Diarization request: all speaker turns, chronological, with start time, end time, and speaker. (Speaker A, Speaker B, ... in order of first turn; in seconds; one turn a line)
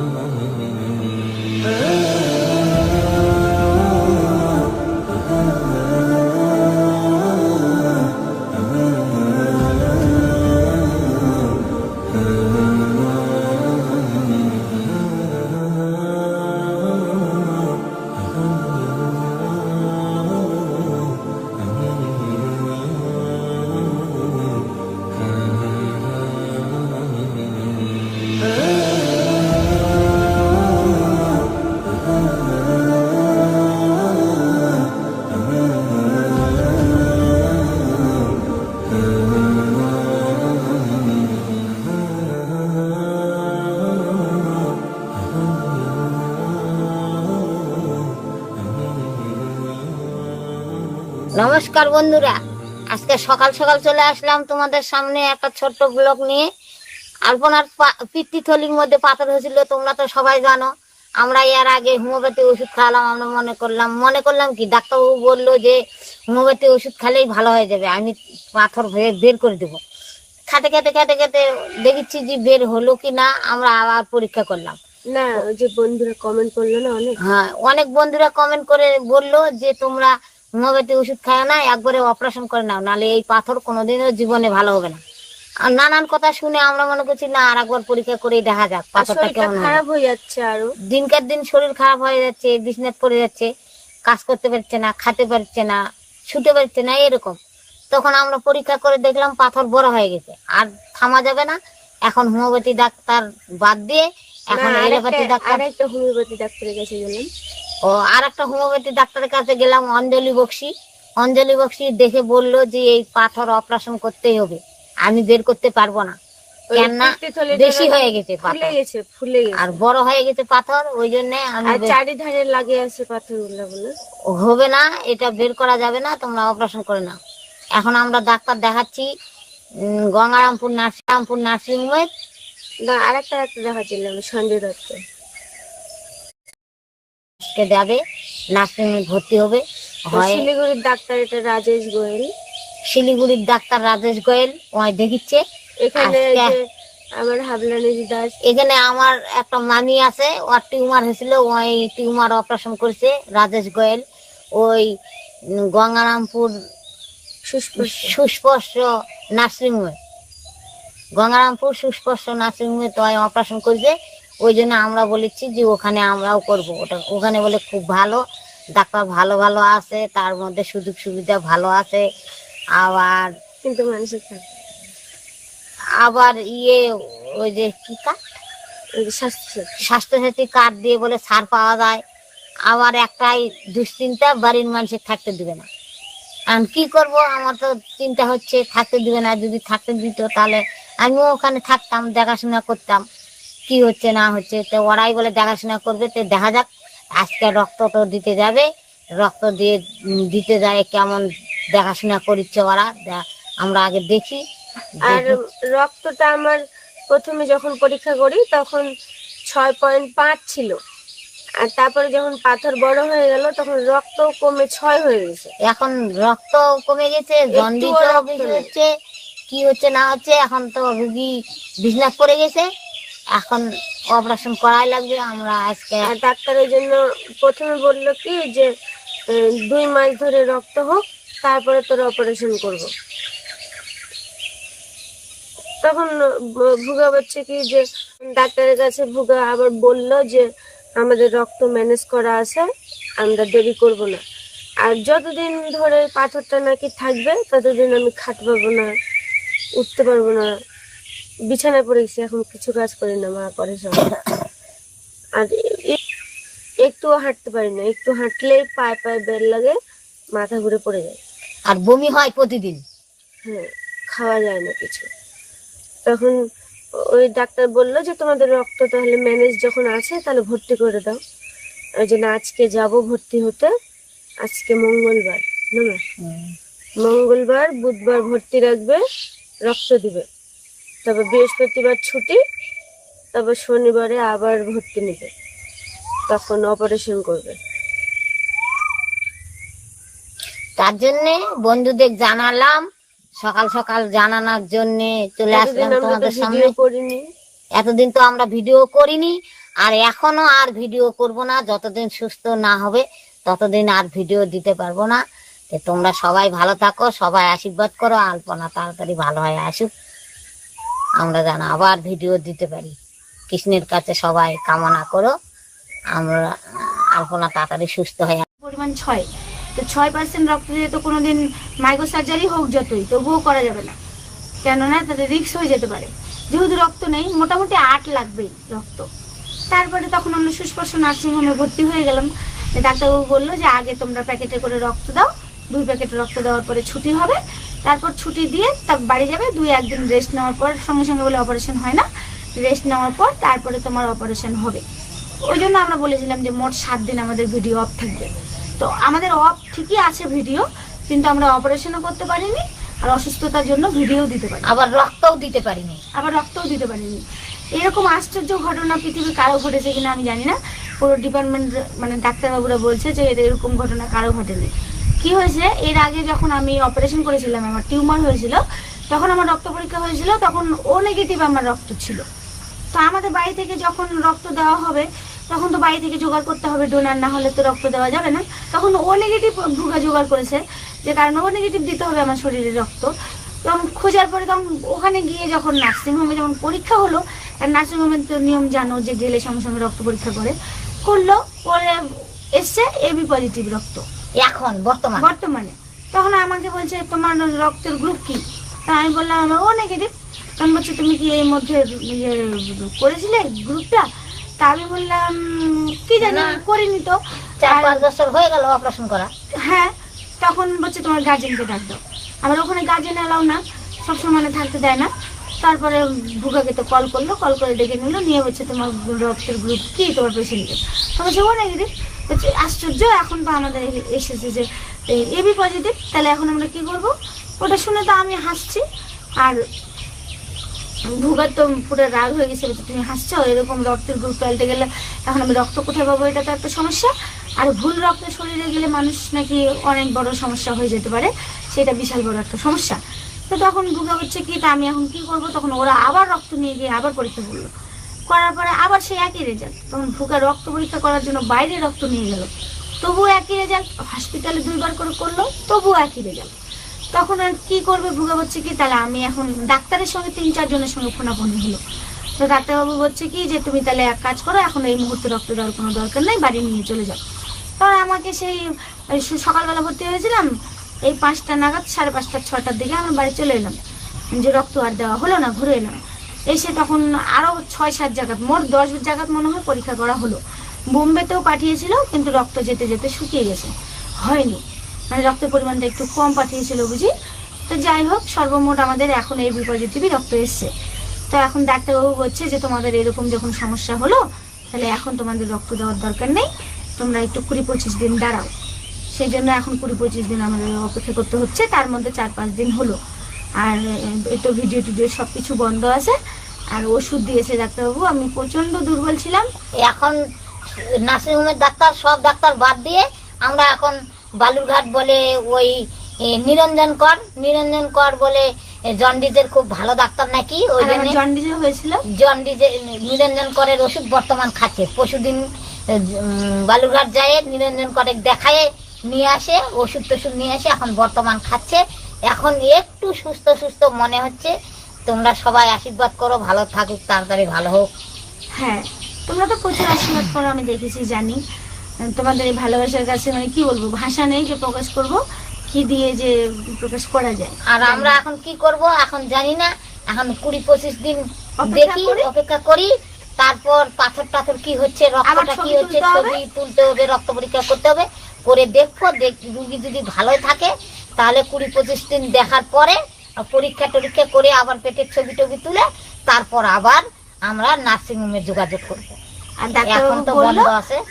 Speaker A: 51.3-52.4
Speaker A: 52.9-56.5
Speaker A: 57.3-60.7
Speaker A: 61.2-65.8
Speaker A: 66.3-69.8
Speaker A: 70.5-74.8
Speaker B: 75.1-77.2
Speaker A: 77.2-85.0
Speaker A: 85.7-89.8
Speaker B: 89.0-90.7
Speaker A: 90.9-93.5
Speaker A: 94.1-97.4
Speaker A: 97.9-105.6
Speaker B: 104.5-107.3
Speaker A: 107.8-110.7
Speaker A: 111.2-116.2
Speaker B: 116.7-119.8
Speaker A: 116.8-118.7
Speaker A: 119.6-121.9
Speaker B: 121.7-123.9
Speaker A: 124.3-127.2
Speaker A: 127.8-129.1
Speaker A: 129.8-132.1
Speaker B: 132.8-135.0
Speaker A: 137.4-138.0
Speaker A: 138.5-140.4
Speaker B: 140.1-142.3
Speaker A: 142.9-145.4
Speaker B: 145.8-146.6
Speaker A: 146.0-146.5
Speaker B: 147.2-148.3
Speaker A: 148.4-154.0
Speaker A: 154.6-154.9
Speaker A: 155.6-156.5
Speaker B: 157.5-158.1
Speaker A: 157.8-160.0
Speaker A: 161.2-163.9
Speaker A: 164.4-168.2
Speaker A: 168.8-172.0
Speaker A: 172.8-173.3
Speaker B: 173.6-174.5
Speaker A: 176.0-178.2
Speaker B: 179.0-179.7
Speaker A: 179.8-182.0
Speaker A: 182.7-185.7
Speaker A: 186.5-193.0
Speaker A: 193.7-196.7
Speaker A: 197.2-198.7
Speaker A: 199.2-204.4
Speaker A: 205.0-205.4
Speaker B: 205.1-208.9
Speaker B: 209.5-210.8
Speaker B: 211.6-215.5
Speaker A: 215.6-218.9
Speaker B: 217.5-218.7
Speaker A: 219.5-222.7
Speaker A: 223.3-226.1
Speaker B: 226.0-228.7
Speaker B: 229.3-232.9
Speaker B: 235.8-242.7
Speaker B: 243.2-244.2
Speaker B: 244.8-248.9
Speaker B: 249.8-250.5
Speaker B: 251.5-254.1
Speaker B: 255.3-256.0
Speaker B: 256.8-259.8
Speaker B: 260.3-261.2
Speaker A: 261.7-262.8
Speaker B: 263.4-265.1
Speaker B: 266.1-266.4
Speaker B: 267.1-271.2
Speaker B: 272.0-273.7
Speaker B: 274.4-276.0
Speaker A: 276.2-276.5
Speaker B: 277.0-279.0
Speaker B: 279.6-280.2
Speaker B: 281.0-282.4
Speaker B: 283.3-285.3
Speaker B: 286.3-287.6
Speaker A: 290.8-292.8
Speaker A: 293.4-296.7
Speaker B: 295.5-297.2
Speaker A: 297.8-309.9
Speaker A: 311.2-312.9
Speaker A: 313.5-315.3
Speaker A: 316.1-318.4
Speaker C: 318.6-323.9
Speaker C: 324.6-329.1
Speaker C: 329.7-342.1
Speaker C: 342.6-344.8
Speaker C: 345.4-354.7
Speaker A: 354.7-356.0
Speaker C: 356.1-357.2
Speaker C: 357.8-372.2
Speaker C: 372.9-383.1
Speaker C: 383.6-390.5
Speaker C: 391.0-394.0
Speaker A: 394.4-395.3
Speaker C: 395.2-404.1
Speaker C: 404.6-408.0
Speaker A: 406.2-406.6
Speaker A: 407.6-409.3
Speaker C: 409.6-428.8
Speaker C: 431.2-447.7
Speaker C: 448.3-452.5
Speaker C: 453.0-456.5
Speaker C: 457.1-461.8
Speaker C: 462.4-467.2
Speaker C: 467.8-470.5
Speaker C: 471.0-473.8
Speaker C: 474.3-476.0
Speaker C: 476.5-480.4
Speaker C: 480.9-487.1
Speaker C: 487.7-490.7
Speaker C: 491.3-494.2
Speaker C: 494.7-498.5
Speaker C: 499.1-503.0
Speaker C: 503.6-506.1
Speaker C: 506.7-509.5
Speaker A: 509.8-510.2
Speaker A: 511.0-521.2
Speaker C: 520.8-522.0
Speaker A: 522.1-534.5
Speaker A: 535.1-537.9
Speaker C: 538.5-541.4
Speaker C: 542.1-548.2
Speaker A: 547.7-569.2
Speaker C: 551.6-552.3
Speaker C: 555.3-556.4
Speaker C: 569.6-570.7
Speaker A: 569.9-571.0